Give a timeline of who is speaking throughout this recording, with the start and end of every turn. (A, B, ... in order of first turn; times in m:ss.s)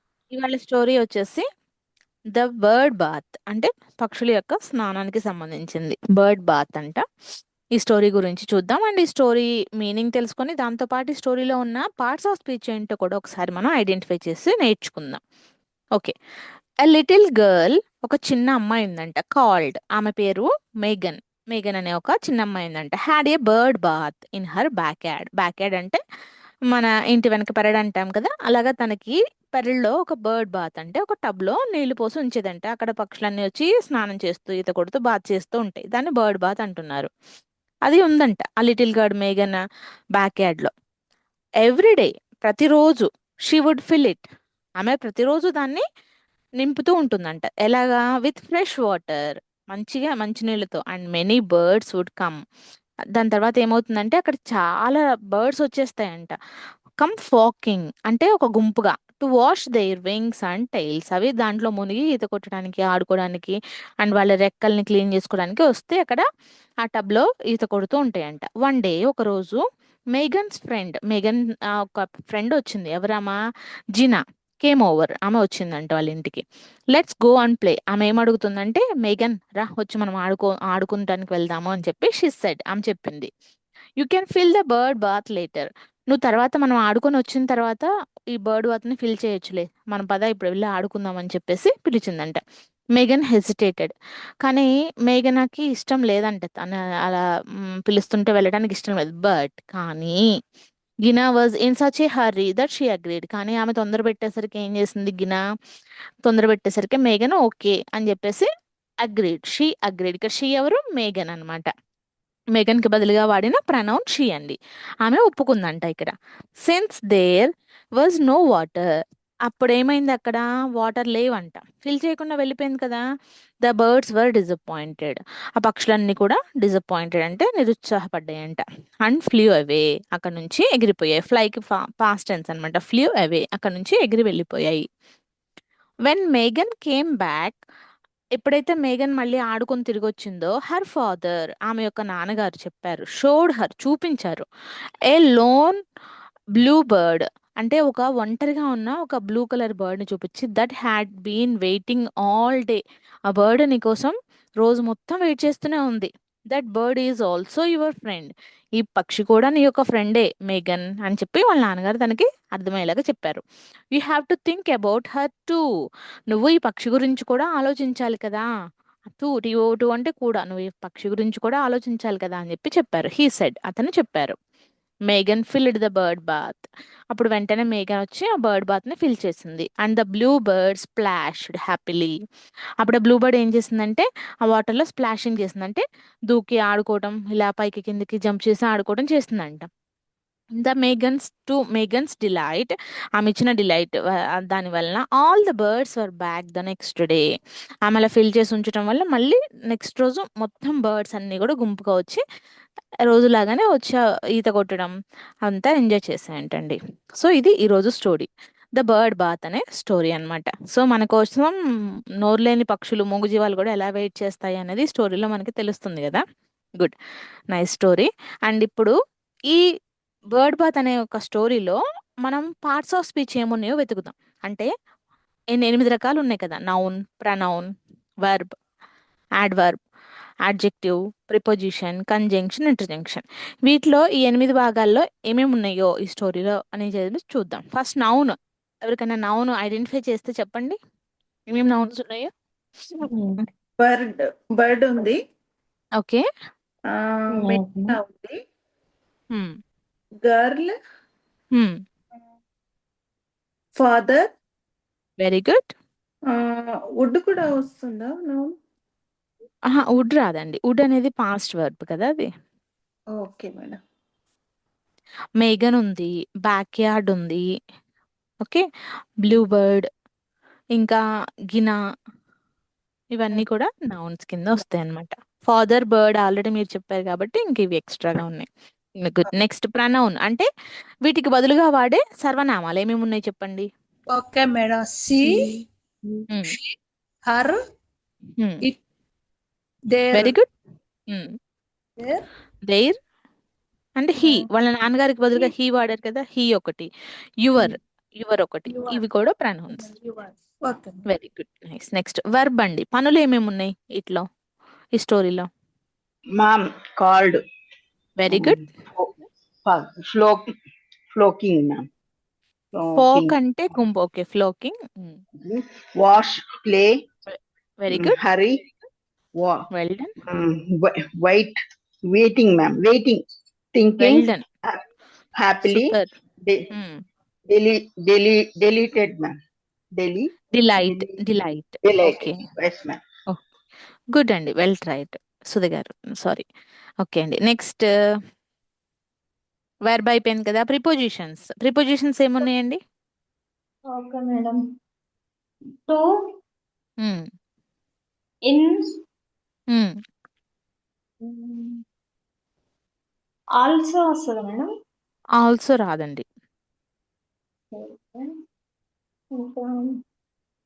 0:00.3-0:01.4 A
0:02.3-0:07.0 A
0:07.8-0:15.2 A
0:16.8-0:26.0 A
0:26.7-0:37.1 A
0:37.8-0:39.6 A
0:40.2-0:40.7 A
0:41.6-0:44.2 A
0:44.8-0:45.8 A
0:46.6-0:52.4 A
0:53.2-0:56.4 A
0:57.0-1:06.2 A
1:06.8-1:09.6 A
1:10.1-1:13.4 A
1:13.9-1:16.4 A
1:16.9-1:23.3 A
1:24.0-1:32.4 A
1:33.0-1:37.2 A
1:37.8-1:40.1 A
1:41.0-1:45.4 A
1:46.2-1:48.5 A
1:49.0-1:51.7 A
1:52.5-1:56.1 A
1:56.6-1:58.8 A
1:59.5-2:03.0 A
2:03.6-2:14.8 A
2:16.0-2:17.6 A
2:18.4-2:24.4 A
2:25.0-2:25.8 A
2:26.6-2:32.8 A
2:33.3-2:43.4 A
2:43.9-2:45.6 A
2:46.3-2:48.4 A
2:49.2-2:54.4 A
2:55.1-2:56.6 A
2:57.1-3:02.1 A
3:02.8-3:09.7 A
3:10.6-3:14.0 A
3:14.5-3:17.2 A
3:17.9-3:22.2 A
3:23.1-3:24.9 A
3:25.4-3:31.5 A
3:32.2-3:36.2 A
3:37.5-3:38.9 A
3:40.3-3:44.7 A
3:45.5-3:47.7 A
3:48.2-3:48.5 A
3:49.4-3:49.8 A
3:50.5-4:00.8 A
4:01.5-4:02.3 A
4:03.8-4:05.2 B
4:06.0-4:06.2 A
4:06.9-4:08.4 B
4:07.4-4:07.9 C
4:10.2-4:10.8 B
4:13.8-4:14.3 B
4:15.2-4:15.7 A
4:16.3-4:18.6 B
4:19.7-4:22.3 A
4:23.1-4:23.8 B
4:25.4-4:27.4 A
4:29.2-4:29.9 A
4:33.1-4:38.5 A
4:39.0-4:40.5 A
4:41.1-4:43.7 A
4:44.1-4:45.3 D
4:50.0-4:50.3 D
4:50.1-4:50.4 A
4:52.6-4:53.0 A
4:54.0-4:56.9 A
4:57.4-4:59.9 A
4:58.7-4:59.0 D
5:01.0-5:04.2 A
5:05.0-5:05.5 A
5:06.4-5:07.4 E
5:08.2-5:08.6 A
5:08.3-5:09.1 E
5:09.6-5:10.5 E
5:11.1-5:11.8 E
5:12.7-5:13.3 E
5:13.0-5:15.2 A
5:15.4-5:16.9 E
5:17.3-5:18.2 A
5:17.9-5:18.7 E
5:19.4-5:19.6 E
5:19.7-5:20.1 A
5:20.3-5:21.5 E
5:22.1-5:23.2 E
5:23.7-5:24.8 E
5:24.0-5:24.4 A
5:25.4-5:26.7 E
5:25.6-5:26.1 A
5:27.5-5:29.3 E
5:30.0-5:31.2 E
5:30.5-5:32.4 A
5:31.8-5:33.0 E
5:34.1-5:36.4 A
5:37.0-5:37.8 A
5:39.9-5:42.8 A
5:43.9-5:44.6 C
5:51.2-5:51.8 C
5:53.6-5:54.7 C
5:55.4-5:56.2 A
5:57.7-5:58.3 C
5:59.4-5:59.9 C